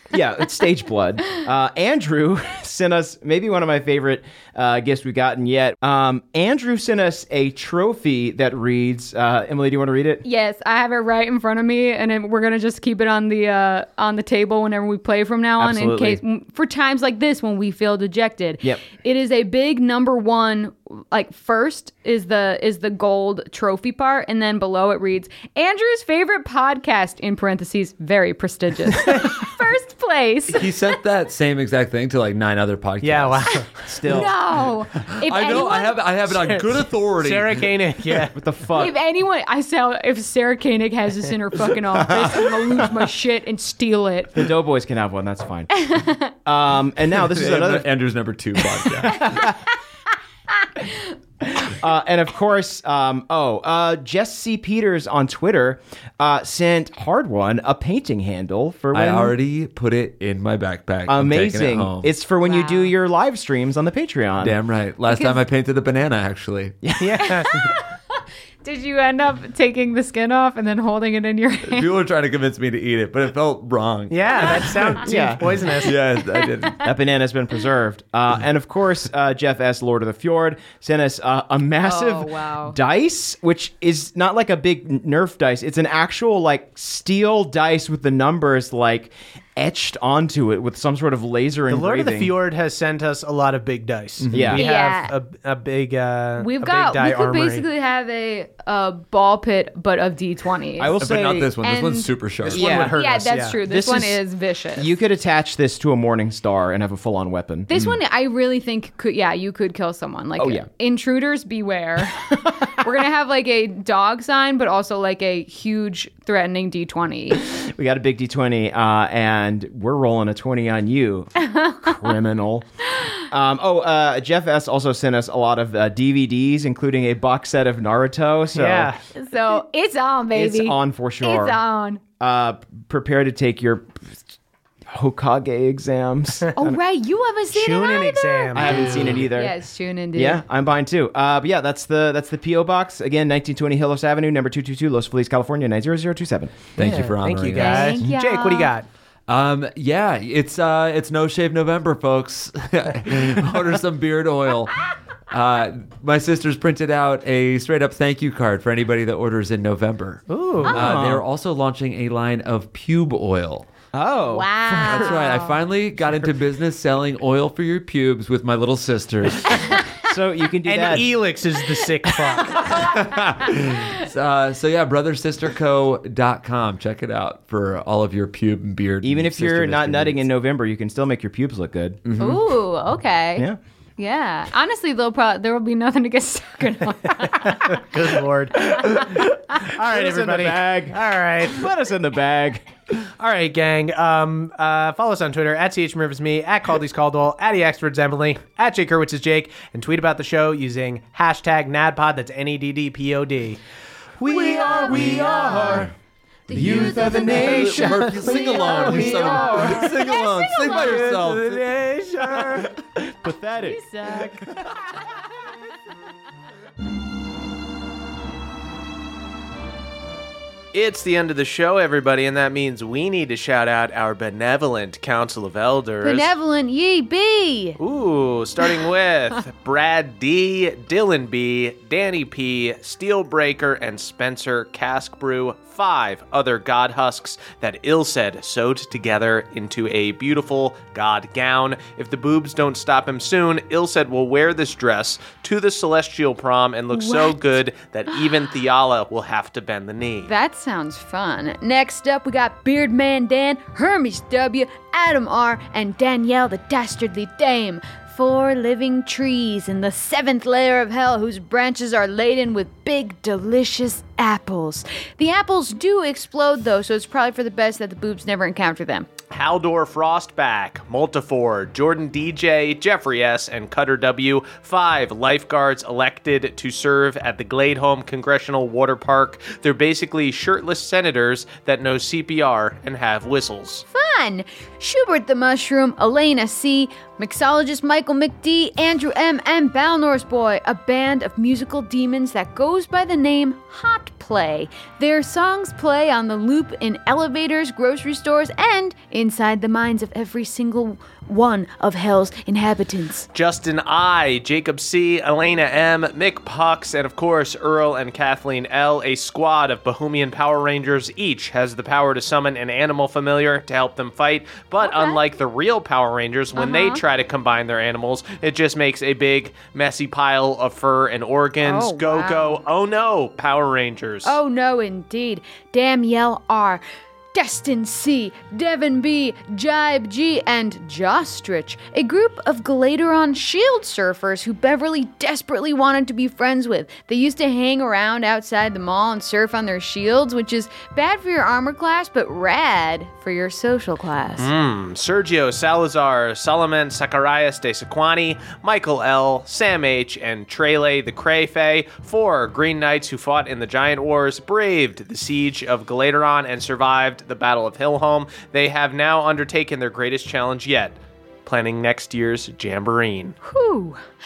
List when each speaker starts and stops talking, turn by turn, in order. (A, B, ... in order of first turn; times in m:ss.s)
0:00.1-0:10.2 A
0:10.2-0:30.7 B
0:15.6-0:16.2 A
0:30.5-0:33.5 C
0:33.0-0:33.9 D
0:33.5-0:36.0 B
0:33.8-0:34.4 A
0:34.7-0:38.2 C
0:36.3-0:38.4 D
0:38.3-0:39.0 A
0:38.8-0:44.4 B
0:42.1-0:42.4 C
0:44.3-0:47.9 A
0:45.8-0:46.3 B
0:47.2-0:49.5 C
0:48.6-0:49.6 A
0:51.4-0:59.4 A
0:58.9-1:02.1 C
1:01.1-1:04.6 A
1:02.4-1:02.9 B
1:04.4-1:06.8 C
1:05.1-1:05.4 B
1:06.8-1:07.6 A
1:07.0-1:07.5 D
1:07.2-1:11.9 B
1:11.7-1:16.8 C
1:14.1-1:16.0 D
1:15.0-1:15.6 A
1:16.7-1:32.3 A
1:21.8-1:22.8 B
1:31.7-1:37.7 D
1:34.2-1:34.6 C
1:34.3-1:34.6 A
1:34.6-1:35.1 B
1:36.4-1:41.0 B
1:40.8-1:41.5 A
1:40.9-1:42.7 C
1:41.6-1:42.1 B
1:42.4-1:43.6 D
1:42.5-1:43.0 A
1:42.7-1:45.0 B
1:43.6-1:44.2 A
1:44.8-1:47.7 A
1:47.7-1:57.4 B
1:50.4-1:50.7 A
1:52.3-1:52.9 A
1:57.4-2:02.7 A
2:01.4-2:02.1 B
2:03.3-2:08.9 A
2:08.5-2:09.0 D
2:09.2-2:12.0 B
2:10.3-2:11.6 A
2:12.2-2:14.2 A
2:14.9-2:16.5 A
2:16.5-2:20.4 B
2:17.5-2:19.3 D
2:18.5-2:19.5 A
2:20.2-2:26.6 A
2:26.8-2:28.0 C
2:26.8-2:28.9 D
2:27.6-2:28.7 B
2:29.3-2:43.7 C
2:40.3-2:40.8 D
2:40.7-2:41.2 A
2:43.9-2:45.2 A
2:44.3-2:45.6 B
2:44.8-2:49.8 C
2:50.0-2:51.1 A
2:50.7-2:52.8 D
2:52.7-3:00.2 C
2:59.0-3:02.0 A
3:02.1-3:02.4 C
3:02.2-3:03.5 B
3:04.0-3:07.8 B
3:07.2-3:11.6 D
3:08.7-3:12.6 A
3:13.2-3:23.6 D
3:24.2-3:25.9 A
3:24.3-3:25.8 D
3:24.7-3:25.9 B
3:24.9-3:25.8 C
3:26.5-3:31.0 B
3:26.5-3:29.9 A
3:26.6-3:31.7 C
3:26.6-3:29.9 D
3:30.7-3:32.7 D
3:32.2-3:34.7 A
3:33.6-3:34.4 B
3:40.7-3:46.3 D
3:46.0-3:47.8 B
3:47.8-4:10.3 D
4:06.9-4:07.4 B
4:10.2-4:29.1 B
4:29.3-4:43.9 D
4:43.9-5:03.3 B
5:03.3-5:24.4 D
5:14.8-5:15.2 B
5:16.6-5:17.0 B
5:21.6-5:22.6 B
5:24.2-5:26.8 B
5:27.3-5:44.5 B
5:44.4-6:03.4 D
6:03.4-6:04.0 B